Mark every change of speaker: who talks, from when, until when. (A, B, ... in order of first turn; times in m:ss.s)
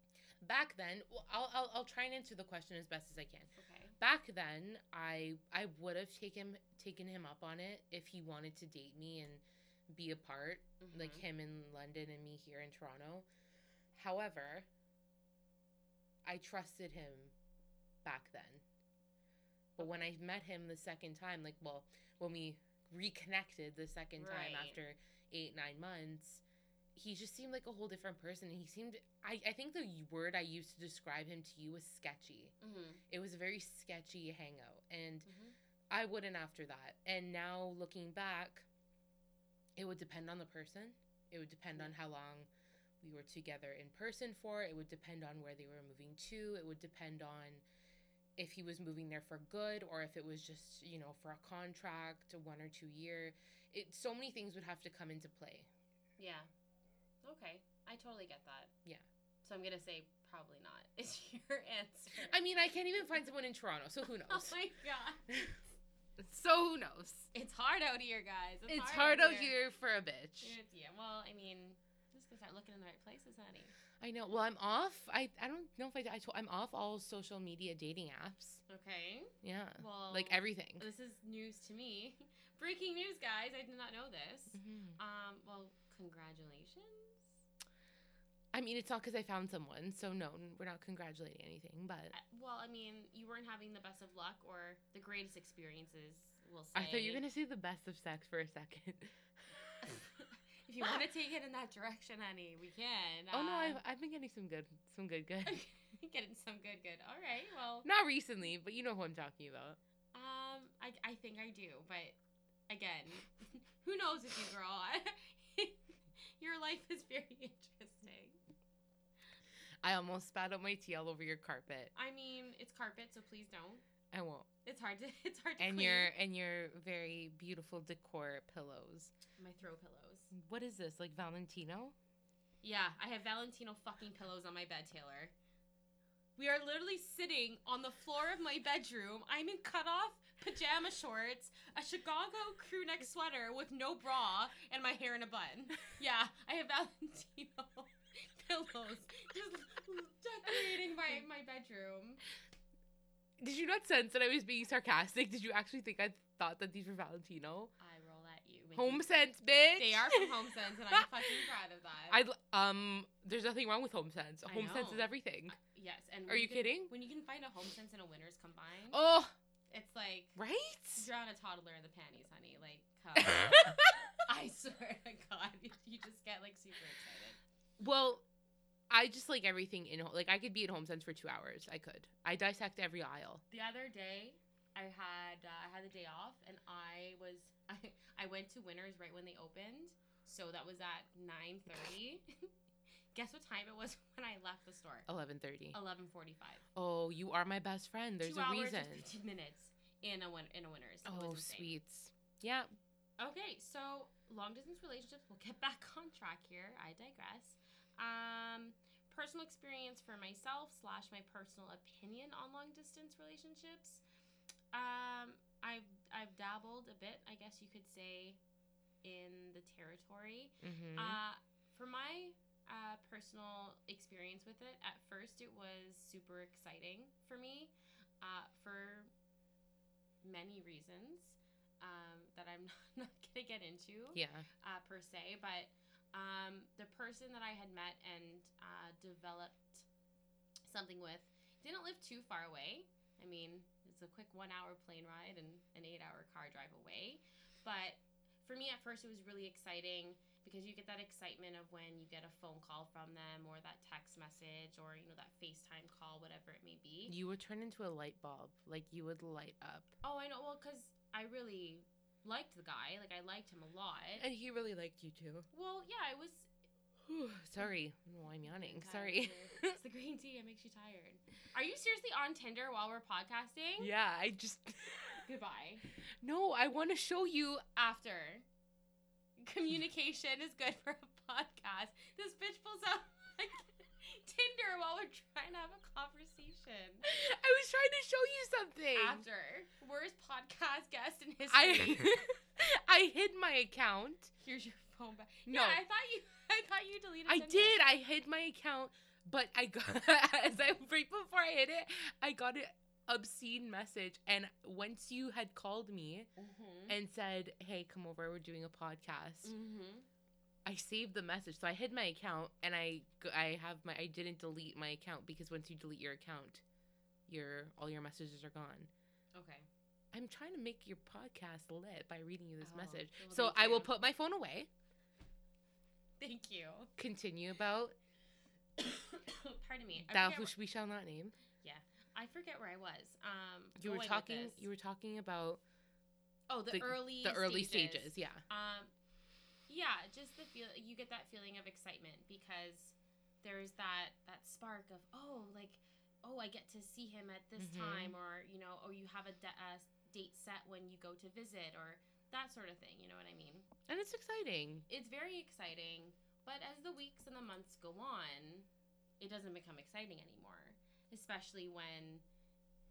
0:00.4-0:13.3 A
0:03.6-0:04.0 B
0:10.8-0:11.2 B
0:13.9-0:14.7 A
0:16.2-0:17.3 A
0:18.0-0:18.6 A
0:19.8-0:26.4 A
0:24.2-0:24.8 B
0:27.0-0:32.5 A
0:32.6-0:33.0 B
0:33.1-0:35.3 A
0:35.2-0:35.6 B
0:35.9-0:38.7 A
0:39.8-0:42.5 A
0:43.0-0:47.6 A
0:48.4-0:55.7 A
0:56.2-0:56.5 B
0:57.2-0:58.7 B
0:59.4-1:02.4 B
1:02.2-1:04.6 A
1:04.0-1:05.4 B
1:05.3-1:05.6 A
1:06.2-1:07.3 A
1:07.3-1:09.6 B
1:08.7-1:10.6 A
1:10.4-1:13.7 B
1:14.0-1:18.6 A
1:18.7-1:27.3 B
1:19.4-1:20.9 A
1:24.5-1:25.0 A
1:28.5-1:32.1 A
1:32.1-1:37.2 B
1:36.7-1:39.8 A
1:39.8-1:43.8 B
1:43.3-1:45.6 A
1:45.4-1:47.9 B
1:47.8-1:49.8 A
1:50.1-1:52.2 B
1:52.7-1:58.4 B
1:59.8-2:01.9 A
2:01.9-2:03.8 B
2:04.1-2:04.5 A
2:04.6-2:06.1 B
2:05.6-2:09.1 A
2:09.4-2:10.3 B
2:10.3-2:11.9 A
2:12.6-2:15.3 B
2:16.4-2:32.2 B
2:33.4-2:37.7 A
2:37.8-2:39.1 B
2:38.8-2:41.5 A
2:39.8-2:42.2 B
2:42.1-2:45.6 A
2:44.4-2:49.0 B
2:46.3-2:46.9 A
2:48.9-2:49.3 A
2:49.7-2:50.4 B
2:50.4-2:51.1 A
2:51.0-2:57.4 B
2:53.2-2:54.1 A
2:57.8-2:58.2 A
2:58.9-3:03.4 A
3:03.5-3:12.5 B
3:13.1-3:15.1 B
3:15.1-3:15.8 A
3:15.7-3:16.6 B
3:16.7-3:19.1 A
3:18.2-3:21.7 B
3:21.0-3:22.7 A
3:23.2-3:34.0 B
3:34.7-3:38.4 B
3:39.0-3:49.1 B
3:40.6-3:41.2 A
3:50.2-3:59.9 B
3:54.1-3:54.4 A
4:00.6-4:17.1 B
4:17.1-4:19.9 A
4:20.0-4:24.2 B
4:24.2-4:25.5 A
4:25.5-4:26.5 B
4:27.1-4:29.8 A
4:28.4-4:33.9 B
4:33.8-4:35.2 A
4:35.2-4:35.9 B
4:36.2-4:37.7 A
4:37.8-4:38.4 B
4:39.4-4:47.1 B
4:47.0-4:49.2 A
4:48.9-4:52.2 B
4:51.5-4:54.3 A
4:54.4-4:57.8 B
4:55.5-4:55.8 A
4:57.3-5:06.3 A
5:06.4-5:07.0 B
5:06.9-5:09.5 A
5:09.4-5:10.1 B
5:10.6-5:16.6 A
5:17.3-5:18.9 A
5:19.3-5:19.7 B
5:20.1-5:24.7 A
5:22.6-5:23.9 B
5:26.2-5:26.9 B
5:27.0-5:27.9 A
5:28.8-5:30.5 B
5:30.0-5:31.4 A
5:31.6-5:34.6 B
5:33.8-5:35.6 A
5:36.5-5:38.9 B
5:36.7-5:38.4 A
5:39.7-5:53.7 B
5:47.6-5:48.2 A
5:53.9-5:54.9 A
5:54.9-5:58.7 B
5:59.2-6:02.2 B